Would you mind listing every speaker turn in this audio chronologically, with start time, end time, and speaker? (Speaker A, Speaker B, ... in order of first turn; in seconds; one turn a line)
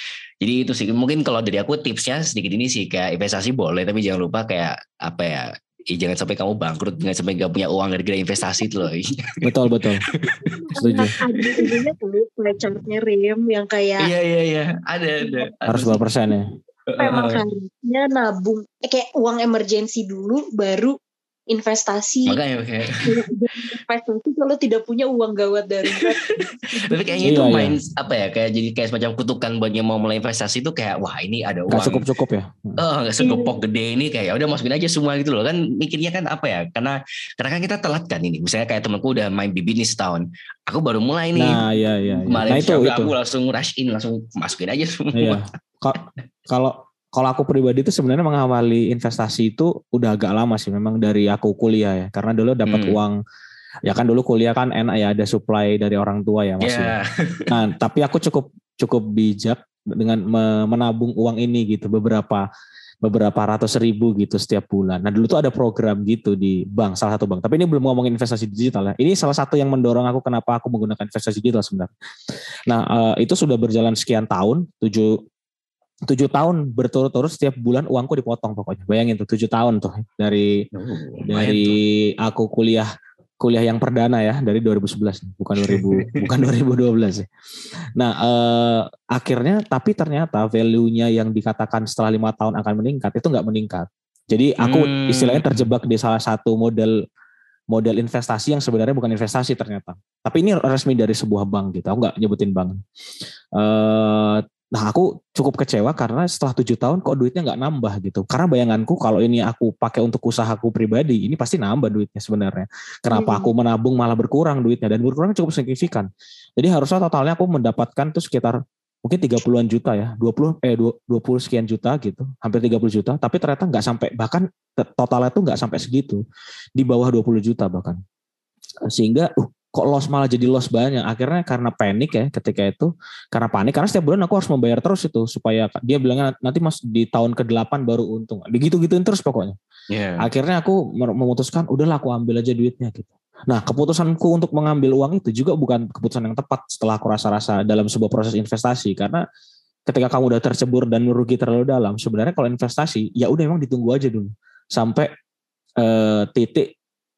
Speaker A: 0.4-10.5
Speaker B: 9.4-10.0
Speaker C: 10.4-14.1
Speaker B: 10.8-11.1
Speaker A: 11.4-11.8
Speaker A: 14.0-16.0
Speaker B: 15.7-16.5
Speaker A: 16.9-17.4
Speaker C: 17.0-20.9
Speaker C: 21.5-22.4
Speaker A: 22.3-23.2
Speaker C: 23.0-27.4
Speaker A: 25.9-32.0
Speaker B: 27.2-27.8
Speaker B: 31.7-32.8
Speaker A: 32.8-41.6
Speaker C: 33.2-33.5
Speaker B: 41.3-43.1
Speaker A: 42.3-45.4
Speaker B: 45.1-53.2
Speaker A: 52.7-53.0
Speaker B: 53.8-56.9
Speaker A: 56.6-57.5
Speaker B: 57.5-62.5
Speaker B: 63.0-71.9
Speaker B: 72.7-75.2
Speaker B: 76.1-80.7
Speaker A: 80.7-81.8
Speaker B: 81.2-82.9
Speaker B: 83.4-87.3
Speaker A: 85.6-86.3
Speaker B: 88.0-97.0
Speaker A: 94.6-95.7
Speaker B: 97.7-102.8
Speaker B: 103.6-126.2
Speaker C: 113.1-113.5
Speaker B: 126.8-128.0
Speaker B: 128.9-139.6
Speaker A: 139.9-140.3
Speaker B: 140.2-149.2
Speaker B: 149.9-155.1
Speaker B: 155.8-156.7